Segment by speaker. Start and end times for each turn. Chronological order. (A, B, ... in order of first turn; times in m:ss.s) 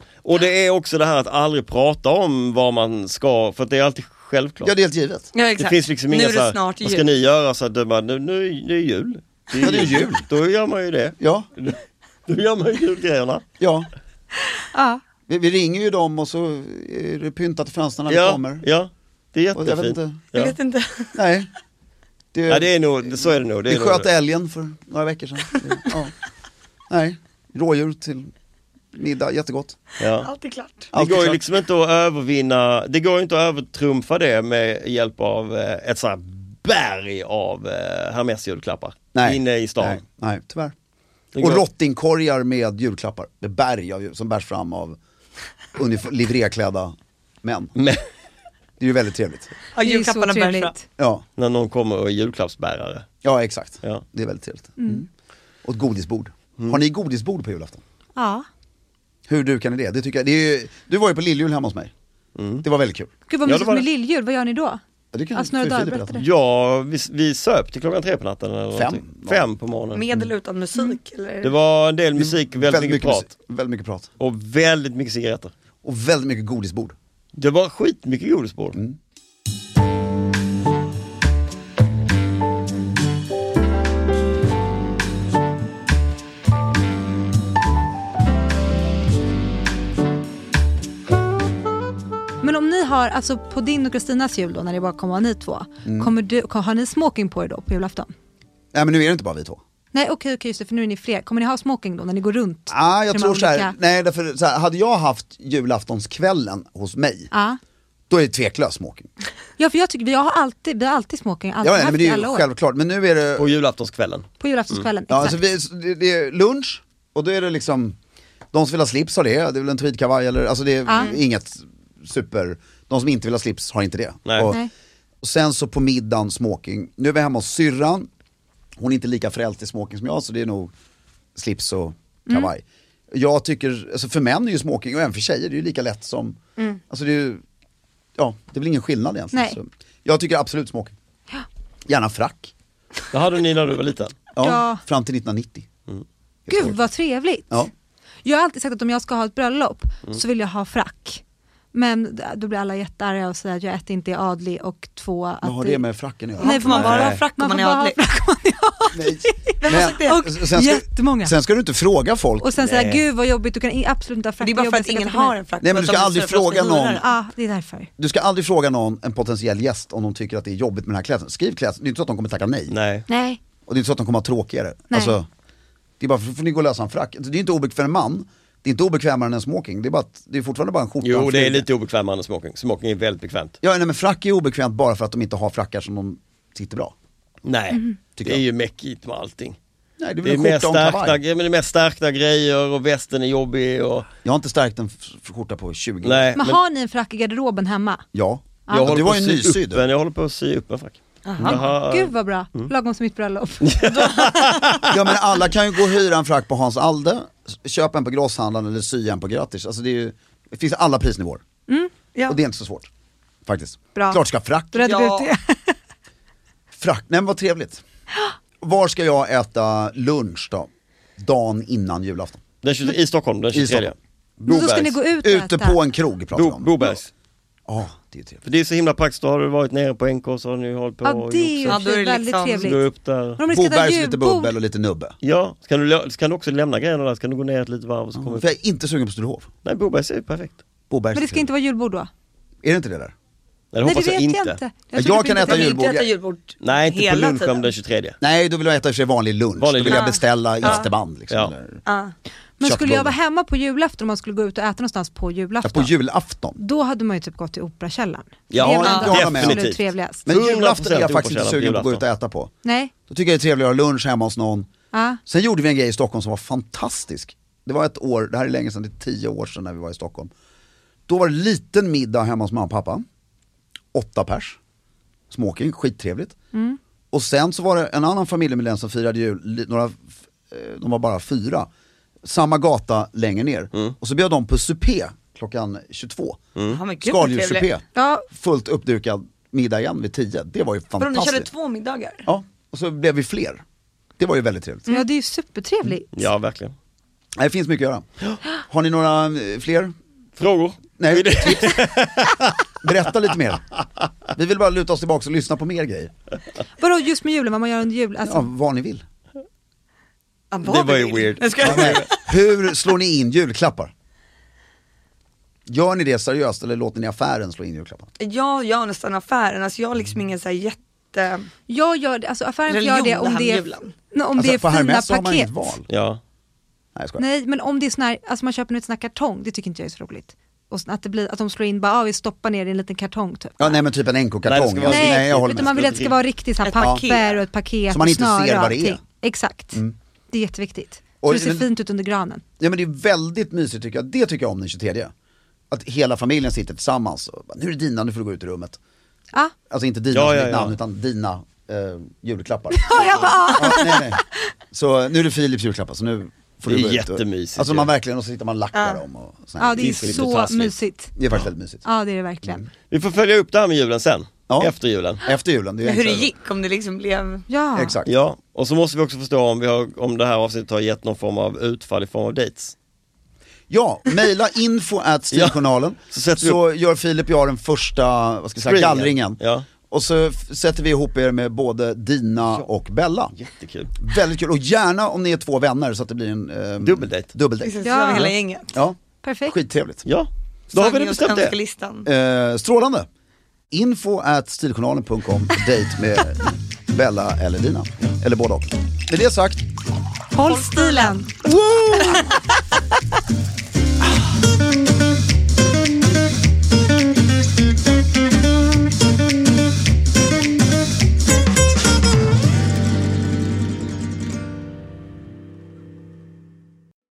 0:00.2-0:04.7 A
0:04.6-0:05.3 B
0:05.3-0:07.1 C
0:05.6-0:13.4 A
0:09.6-0:10.3 B
0:11.2-0:11.5 B
0:13.6-0:13.9 B
0:14.7-0:15.0 D
0:15.3-0:18.7 B
0:18.1-0:20.6 A
0:19.6-0:20.2 B
0:20.3-0:21.2 C
0:21.2-0:21.5 B
0:22.3-0:26.1 B
0:22.5-0:24.1 A
0:26.9-0:28.3 B
0:28.9-0:29.8 B
0:30.0-0:30.3 A
0:30.2-0:30.9 C
0:30.9-0:31.4 B
0:30.9-0:40.0 A
0:39.1-0:40.7 B
0:41.3-0:41.6 A
0:41.4-0:45.0 B
0:45.8-0:47.7 B
0:47.8-0:48.0 A
0:48.8-0:49.5 B
0:49.8-0:50.7 C
0:49.8-0:50.8 D
0:51.0-0:51.2 B
0:51.4-0:53.1 A
0:53.2-0:55.1 B
0:54.8-0:55.0 D
0:55.6-0:57.8 B
0:58.2-0:58.5 D
0:59.3-1:01.9 B
1:02.4-1:02.6 A
1:02.6-1:03.1 B
1:03.3-1:04.8 D
1:03.5-1:03.9 A
1:05.1-1:06.2 B
1:05.4-1:06.2 D
1:06.2-1:10.1 A
1:08.7-1:09.5 B
1:09.9-1:11.5 C
1:11.4-1:13.3 A
1:12.2-1:14.1 B
1:14.2-1:15.5 A
1:15.8-1:17.0 B
1:17.4-1:18.8 A
1:32.4-1:38.1 D
1:35.8-1:36.1 B
1:38.7-1:39.6 B
1:39.9-1:43.8 D
1:42.7-1:47.3 B
1:47.3-1:47.6 D
1:48.1-1:49.1 B
1:49.6-1:52.5 D
1:51.6-1:53.6 B
1:53.4-1:54.9 A
1:54.4-1:55.4 D
1:55.1-1:58.0 B
1:58.5-2:04.6 B
2:00.9-2:01.2 D
2:04.3-2:04.5 A
2:05.2-2:08.1 B
2:08.8-2:10.7 B
2:11.4-2:16.4 B
2:12.3-2:12.5 D
2:16.9-2:17.4 B
2:18.2-2:21.0 B
2:19.3-2:19.6 D
2:21.9-2:22.5 B
2:23.1-2:24.2 A
2:24.3-2:25.7 B
2:24.4-2:24.8 D
2:26.5-2:26.8 B
2:26.5-2:27.7 D
2:28.2-2:31.2 D
2:31.7-2:35.8 D
2:35.4-2:36.7 B
2:36.4-2:38.0 C
2:36.4-2:41.4 D
2:36.7-2:37.2 A
2:38.9-2:42.8 B
2:39.6-2:40.3 C
2:42.4-2:45.4 D
2:42.6-2:43.0 A
2:44.4-2:47.1 C
2:45.6-2:47.0 B
2:47.0-2:47.9 D
2:48.0-2:52.8 B
2:52.7-2:53.1 A
2:53.1-2:53.4 D
2:53.7-2:55.3 B
2:54.9-2:55.2 D
2:56.0-3:01.7 B
3:01.0-3:03.6 A
3:03.6-3:06.9 B
3:07.4-3:09.6 A
3:08.2-3:08.4 B
3:10.0-3:11.2 B
3:10.2-3:14.1 A
3:14.2-3:16.4 B
3:16.0-3:16.6 A
3:16.4-3:18.0 D
3:18.1-3:19.8 B
3:18.7-3:22.7 A
3:21.3-3:21.6 C
3:21.5-3:23.8 D
3:23.6-3:25.2 A
3:23.9-3:24.6 C
3:24.9-3:31.4 B
3:32.3-3:32.9 B
3:33.5-3:34.9 B
3:34.0-3:34.2 D
3:34.7-3:35.8 D
3:34.8-3:35.3 C
3:36.7-3:37.8 B
3:38.6-3:42.4 B
3:42.6-3:45.0 A
3:43.5-3:46.7 B
3:44.5-3:45.8 D
3:46.4-3:47.1 A
3:47.7-3:48.4 B
3:48.4-3:51.8 A
3:51.0-3:52.8 D
3:51.7-3:52.8 C
3:52.6-3:53.4 A
3:53.4-3:54.5 D
3:53.5-3:55.2 B
3:55.2-3:58.5 A
3:58.2-3:59.5 B
3:59.6-4:00.6 A
4:00.9-4:01.5 B
4:01.1-4:02.1 D
4:02.6-4:03.1 B
4:03.7-4:04.6 A
4:03.8-4:05.9 D
4:04.9-4:06.1 B
4:05.4-4:07.7 C
4:06.6-4:08.2 A
4:08.2-4:11.8 B
4:09.6-4:11.5 A
4:09.8-4:10.9 C
4:11.9-4:12.1 C
4:12.6-4:15.9 D
4:12.6-4:13.2 B
4:15.6-4:16.6 B
4:16.6-4:20.3 D
4:18.5-4:22.0 A
4:18.6-4:19.7 B
4:20.3-4:22.5 B
4:22.6-4:22.9 D
4:23.1-4:24.7 B
4:24.9-4:25.2 D
4:25.3-4:30.3 B
4:31.1-4:33.0 B
4:33.9-4:34.6 B
4:35.3-4:36.4 B
4:36.5-4:36.8 D
4:37.1-4:41.7 B
4:42.2-4:46.5 B
4:46.6-4:46.8 A
4:46.7-4:47.7 C
4:47.0-4:51.5 B
4:48.0-4:48.3 D
4:51.0-4:52.2 C
4:52.3-4:53.6 B
4:54.2-4:54.9 B
4:54.9-4:56.3 D
4:56.1-4:56.8 A
4:57.4-4:58.1 B
4:58.6-4:59.9 B
5:00.4-5:02.7 A
5:01.0-5:01.9 B
5:02.8-5:03.7 B
5:04.3-5:06.1 B
5:06.8-5:08.5 D
5:08.2-5:09.0 B
5:10.5-5:12.3 C
5:10.6-5:12.1 A
5:11.6-5:13.9 B
5:15.7-5:18.1 B
5:18.2-5:21.5 C
5:21.7-5:25.7 D
5:22.7-5:23.9 C
5:24.4-5:25.9 B
5:25.9-5:26.2 A
5:27.0-5:27.2 B
5:27.2-5:33.8 D
5:33.6-5:35.9 B
5:34.5-5:36.2 A
5:34.9-5:42.4 D
5:36.6-5:37.4 C
5:37.9-5:39.0 B
5:41.2-5:41.7 B
5:42.6-5:45.1 B
5:45.7-5:48.8 B
5:49.7-6:00.6 B
5:50.1-5:50.8 A
5:52.8-5:54.0 D
5:53.0-5:53.7 C
5:56.7-5:57.9 A
5:58.7-5:59.0 C
5:59.6-6:01.1 D
5:59.8-6:00.7 A
6:01.2-6:01.8 B
6:01.8-6:02.6 D
6:02.9-6:05.2 A
6:04.5-6:06.3 B
6:05.8-6:07.4 C
6:07.5-6:08.0 D
6:07.8-6:08.1 B
6:08.1-6:12.7 A
6:13.7-6:23.4 B
6:15.3-6:15.6 A
6:16.1-6:16.6 A
6:18.6-6:19.7 A
6:23.4-6:24.0 A
6:24.0-6:30.1 B
6:26.8-6:27.3 A
6:27.6-6:28.7 C
6:27.8-6:28.3 D
6:29.2-6:29.6 D
6:30.1-6:31.6 A
6:30.7-6:32.1 C
6:32.0-6:33.1 B
6:33.7-6:39.6 B
6:40.3-6:41.3 D
6:40.4-6:41.3 C
6:41.4-6:42.3 B
6:42.0-6:42.3 C